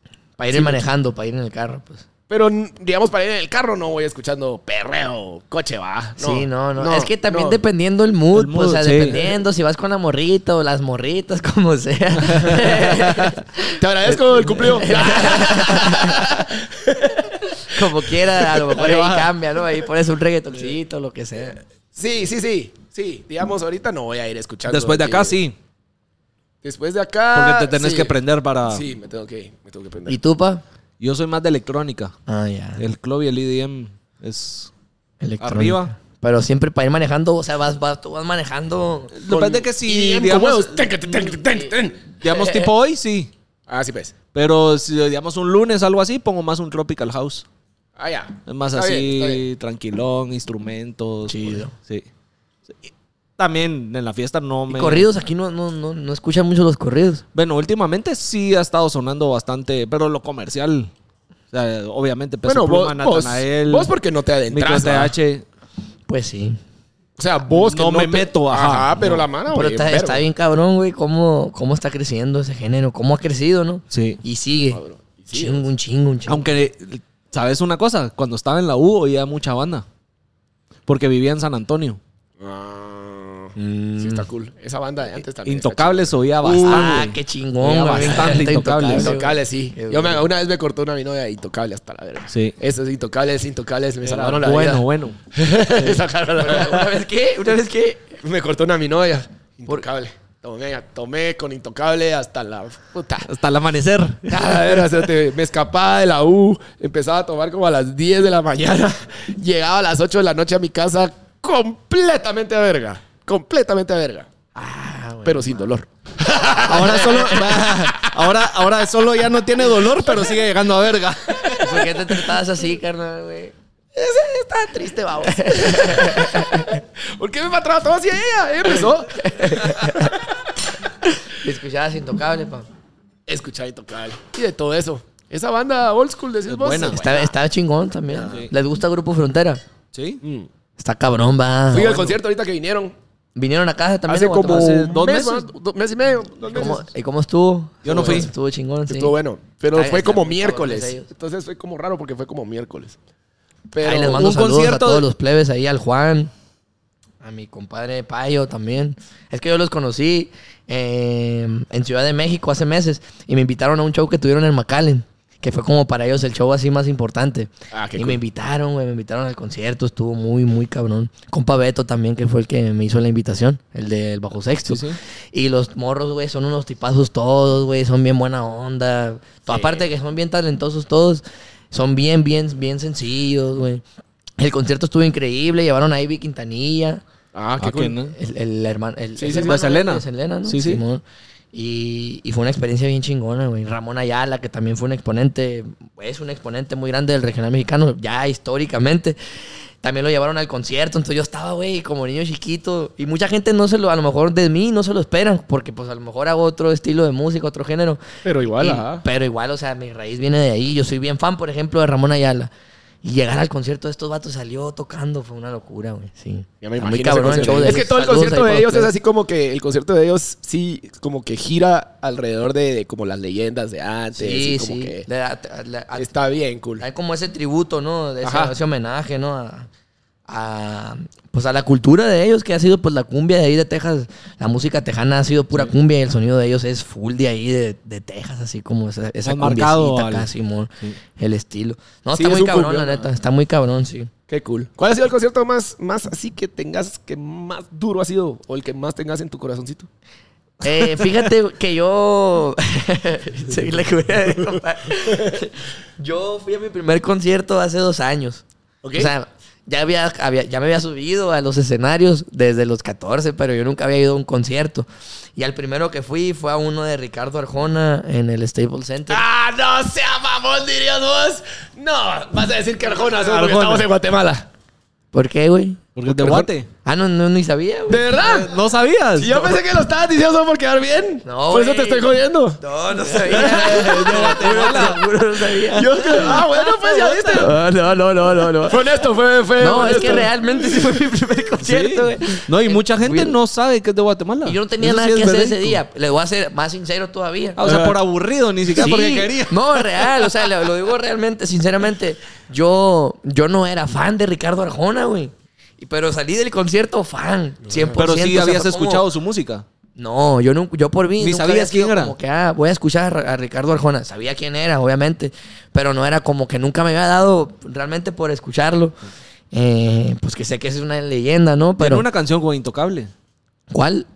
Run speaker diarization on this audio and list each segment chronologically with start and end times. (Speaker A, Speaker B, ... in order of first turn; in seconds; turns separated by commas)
Speaker A: 0.4-2.0, Speaker B: 0.5-0.8, Speaker B: 2.3-7.6, Speaker A: 6.2-16.3, Speaker C: 8.3-9.3, Speaker C: 12.2-13.3, Speaker B: 13.8-18.8, Speaker A: 17.7-21.6, Speaker C: 18.8-19.3, Speaker B: 21.9-25.4, Speaker C: 24.7-25.6, Speaker B: 26.6-28.1, Speaker C: 27.3-28.8, Speaker B: 28.7-30.2, Speaker A: 30.1-30.6, Speaker C: 31.0-32.1, Speaker A: 32.3-32.8, Speaker C: 32.8-34.7, Speaker A: 35.2-39.1, Speaker C: 35.4-35.9, Speaker C: 39.1-41.4, Speaker B: 39.3-42.1, Speaker C: 42.2-43.3, Speaker B: 43.7-44.1, Speaker C: 44.3-47.5, Speaker B: 48.0-49.4, Speaker C: 48.5-52.1, Speaker A: 51.3-51.7, Speaker C: 52.8-55.1, Speaker A: 54.7-57.2, Speaker C: 57.3-60.9, Speaker C: 61.5-63.9, Speaker B: 62.5-65.1, Speaker C: 64.5-65.4, Speaker A: 66.1-66.6, Speaker B: 67.2-70.2, Speaker C: 67.5-69.3, Speaker A: 69.5-74.8, Speaker C: 73.9-74.2, Speaker B: 74.7-75.7, Speaker A: 75.3-76.4, Speaker C: 76.3-79.9, Speaker C: 80.9-82.0, Speaker B: 82.4-87.1, Speaker A: 83.6-84.3, Speaker C: 85.5-89.1, Speaker A: 86.5-90.3, Speaker B: 87.9-97.0, Speaker C: 92.3-92.5, Speaker C: 94.0-95.2, Speaker C: 95.7-96.0, Speaker A: 96.4-98.2, Speaker B: 98.2-103.3, Speaker C: 103.2-104.8, Speaker B: 104.3-114.3, Speaker A: 114.5-115.7, Speaker B: 115.2-118.1, Speaker C: 116.6-121.9, Speaker B: 119.7-120.4, Speaker A: 121.6-123.5, Speaker B: 123.9-130.2, Speaker A: 125.3-126.8, Speaker A: 129.1-130.2, Speaker A: 131.1-132.7, Speaker B: 133.3-137.3, Speaker C: 136.5-137.2, Speaker A: 136.9-139.6, Speaker B: 138.1-138.4, Speaker C: 138.3-138.5, Speaker C: 139.9-140.2, Speaker B: 140.2-140.5, Speaker A: 140.8-142.2, Speaker B: 141.7-142.9, Speaker A: 143.4-144.9, Speaker B: 144.1-146.9, Speaker C: 144.4-145.5, Speaker A: 146.5-149.2, Speaker C: 147.8-148.3, Speaker B: 147.8-148.3, Speaker B: 148.9-153.0, Speaker A: 149.7-151.1, Speaker B: 153.7-154.3, Speaker A: 153.8-156.3, Speaker C: 154.1-155.1, Speaker A: 157.2-183.8, Speaker B: 167.7-168.2, Speaker C: 174.7-175.0, Speaker B: 179.5-179.9, Speaker A: 184.4-187.0, Speaker B: 187.3-188.0, Speaker C: 187.6-188.2, Speaker A: 188.2-199.2, Speaker B: 189.2-189.6, Speaker C: 189.4-190.8, Speaker A: 199.8-208.0, Speaker B: 208.2-209.0, Speaker A: 208.6-212.5, Speaker A: 213.0-218.9, Speaker B: 216.6-225.1, Speaker C: 217.3-217.8, Speaker A: 224.2-226.1, Speaker B: 225.9-226.8, Speaker A: 226.8-229.7, Speaker B: 228.2-228.5, Speaker A: 230.3-244.1, Speaker C: 239.2-240.3, Speaker B: 242.1-243.1, Speaker B: 244.3-249.9, Speaker A: 250.6-258.4, Speaker B: 255.1-255.4, Speaker B: 258.8-259.1, Speaker A: 259.0-269.2, Speaker B: 269.1-274.5, Speaker C: 273.0-273.9, Speaker A: 275.1-275.8, Speaker C: 276.0-276.7, Speaker B: 276.1-276.5, Speaker A: 276.9-278.1, Speaker B: 277.9-278.5, Speaker C: 278.2-279.6, Speaker B: 279.2-285.0, Speaker A: 281.2-286.4, Speaker C: 283.4-285.0, Speaker B: 285.7-287.6, Speaker C: 285.9-287.5, Speaker A: 287.4-288.8, Speaker B: 288.6-290.7, Speaker A: 289.6-293.4, Speaker C: 291.6-295.8, Speaker A: 294.4-297.6, Speaker C: 297.6-300.2, Speaker B: 297.6-297.9, Speaker A: 298.8-309.1, Speaker B: 307.6-308.1, Speaker C: 307.9-309.7, Speaker A: 310.0-319.0, Speaker C: 311.2-312.1, Speaker A: 319.5-322.1, Speaker C: 321.8-323.1, Speaker A: 323.7-324.1